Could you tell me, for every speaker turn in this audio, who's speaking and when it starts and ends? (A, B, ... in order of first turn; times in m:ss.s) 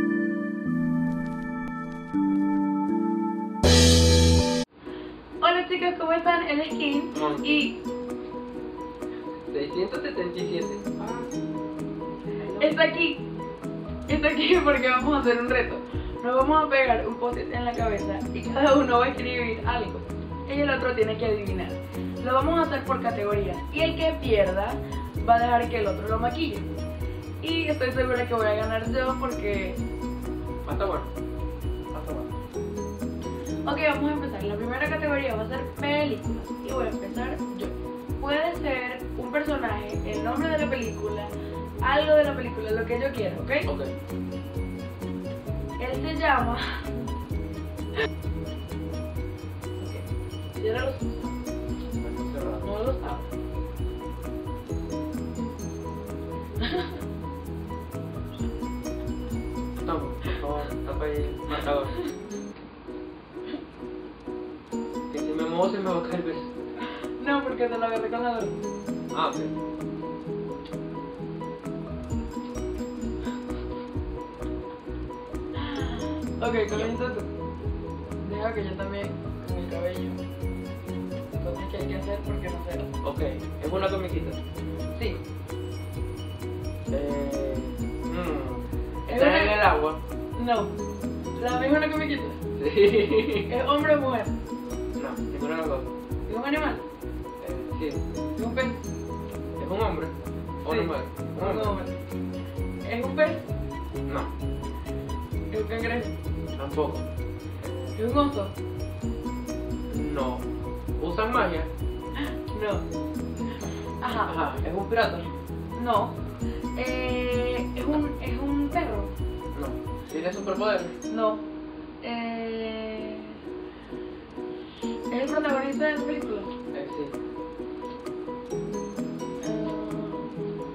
0:05.4-0:07.8 A
0:07.1-0:07.6 B
0:09.5-0:11.3 B
0:12.4-0:12.9 B
0:12.6-0:13.2 A
0:14.1-0:26.7 A
0:27.4-0:29.8 A
0:30.6-0:31.1 B
0:31.9-0:32.3 B
0:33.6-0:43.7 A
0:43.6-0:43.9 B
0:45.8-0:47.1 A
0:49.8-0:50.0 A
0:50.6-0:51.4 A
0:52.0-0:52.7 B
0:52.6-0:53.3 A
0:56.6-0:56.9 A
0:59.8-1:02.0 B
1:05.1-1:06.5 B
1:07.0-1:08.6 A
1:09.1-1:09.5 B
1:15.6-1:17.3 A
1:18.2-1:20.2 A
1:21.4-1:22.9 A
1:23.0-1:24.4 B
1:26.9-1:30.0 B
1:29.0-1:29.6 A
1:30.3-1:30.8 A
1:31.4-1:32.4 A
1:32.6-1:33.5 B
1:33.5-1:34.3 A
1:35.0-1:35.9 B
1:36.3-1:36.8 A
1:37.4-1:38.0 B
1:38.4-1:38.9 A
1:39.6-1:41.8 B
1:40.6-1:42.0 A
1:42.8-1:43.5 A
1:45.5-1:46.1 A
1:46.6-1:47.0 B
1:47.6-1:48.0 B
1:47.9-1:48.5 A
1:49.9-1:50.4 B
1:51.0-1:51.7 B
1:52.4-1:52.8 A
1:54.0-1:54.4 A
1:54.2-1:55.3 B
1:55.7-1:56.2 A
1:56.8-1:59.1 A
1:59.5-2:00.9 B
2:01.1-2:01.4 A
2:02.0-2:03.4 A
2:05.1-2:06.5 A
2:06.7-2:07.2 B
2:09.4-2:10.4 A